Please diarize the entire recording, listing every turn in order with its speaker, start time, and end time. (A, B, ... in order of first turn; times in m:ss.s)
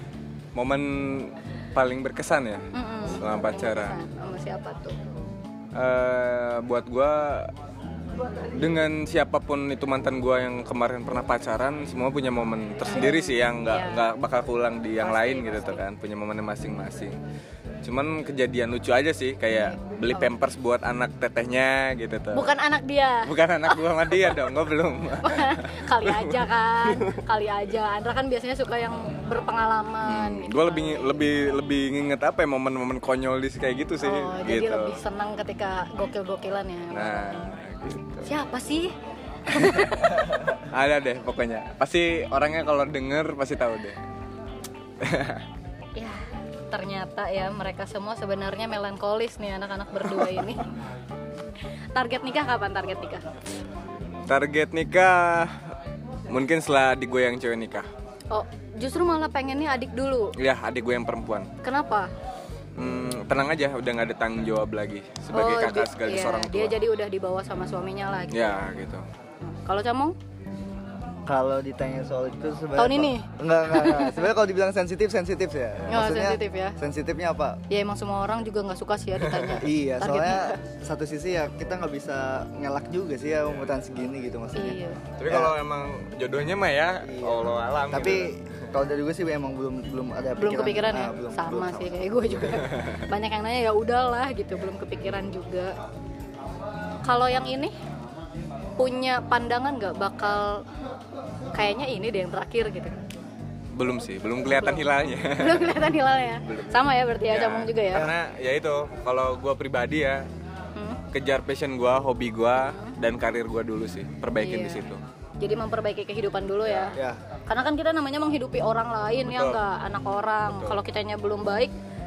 0:00.6-0:04.0 A
0:02.7-0:05.0 B
0:05.7-0:07.5 A
0:08.5-0:17.2 A
0:12.9-0:14.1 B
0:15.0-0:15.8 B
0:17.8-0:22.5 A
0:22.3-0:24.3 B
0:23.2-0:27.2 A
0:25.2-0:31.2 B
0:30.0-0:35.0 A
0:34.0-0:37.5 B
0:36.9-0:38.3 A
0:38.3-0:38.9 B
0:39.5-0:40.2 B
0:39.5-0:44.0 A
0:45.0-0:45.4 A
0:46.0-0:50.7 B
0:52.0-0:53.2 B
0:54.3-0:55.7 A
0:56.3-0:57.9 A
0:58.3-1:00.4 B
1:00.4-1:01.5 A
1:01.6-1:02.1 B
1:02.8-1:06.8 A
1:05.3-1:08.6 B
1:08.3-1:09.0 A
1:09.4-1:10.2 B
1:11.3-1:17.6 C
1:12.8-1:14.3 B
1:15.9-1:16.8 B
1:17.7-1:20.6 B
1:19.3-1:19.6 A
1:19.6-1:25.5 C
1:24.6-1:25.0 B
1:25.2-1:28.3 A
1:27.0-1:32.7 C
1:30.4-1:35.7 B
1:37.0-1:37.7 B
1:38.8-1:40.6 B
1:41.5-1:43.0 B
1:43.7-1:45.8 A
1:44.6-1:44.9 B
1:45.4-1:48.1 B
1:46.4-1:50.3 A
1:50.8-1:51.0 B
1:51.1-1:55.0 A
1:52.6-1:53.0 B
1:54.4-1:54.9 B
1:55.4-1:57.0 B
1:56.9-1:57.2 C
1:57.5-2:01.7 B
1:59.3-1:59.6 A
2:00.5-2:00.8 A